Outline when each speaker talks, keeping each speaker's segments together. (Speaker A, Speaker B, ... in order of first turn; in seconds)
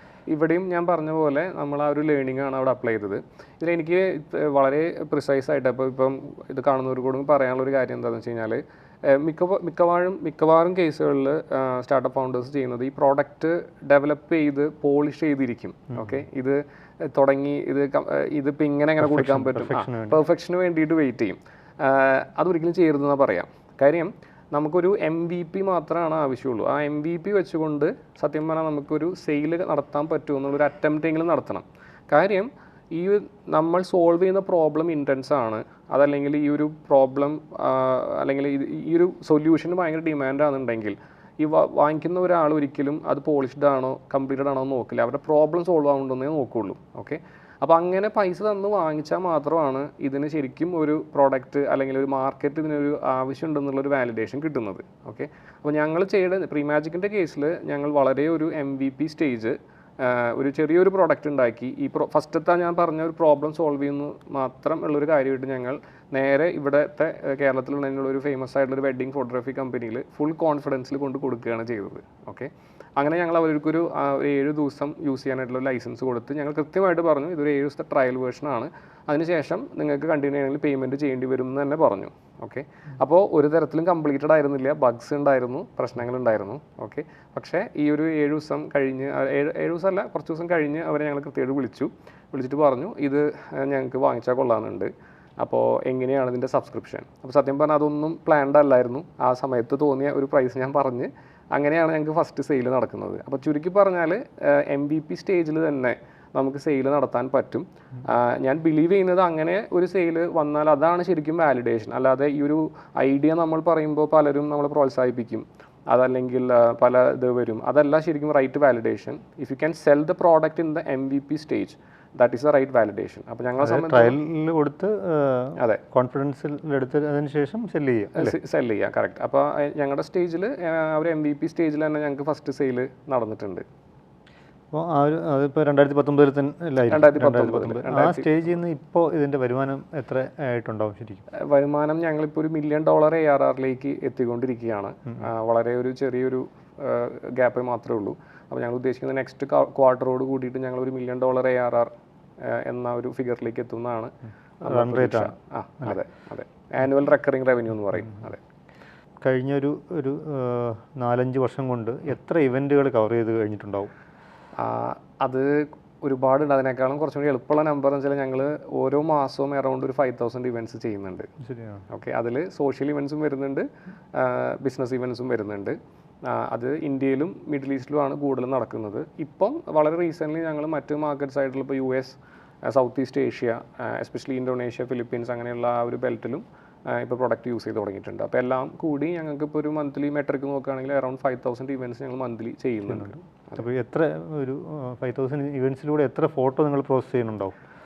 Speaker A: 0.3-124.1, 125.6-125.8, 128.1-133.6, 136.9-138.3, 141.4-151.9, 152.4-158.4, 164.6-171.3, 171.9-193.6
Speaker B: 19.0-20.2, 123.6-128.3, 134.7-141.2, 154.6-155.3, 159.2-163.9, 171.4-171.8, 192.8-197.6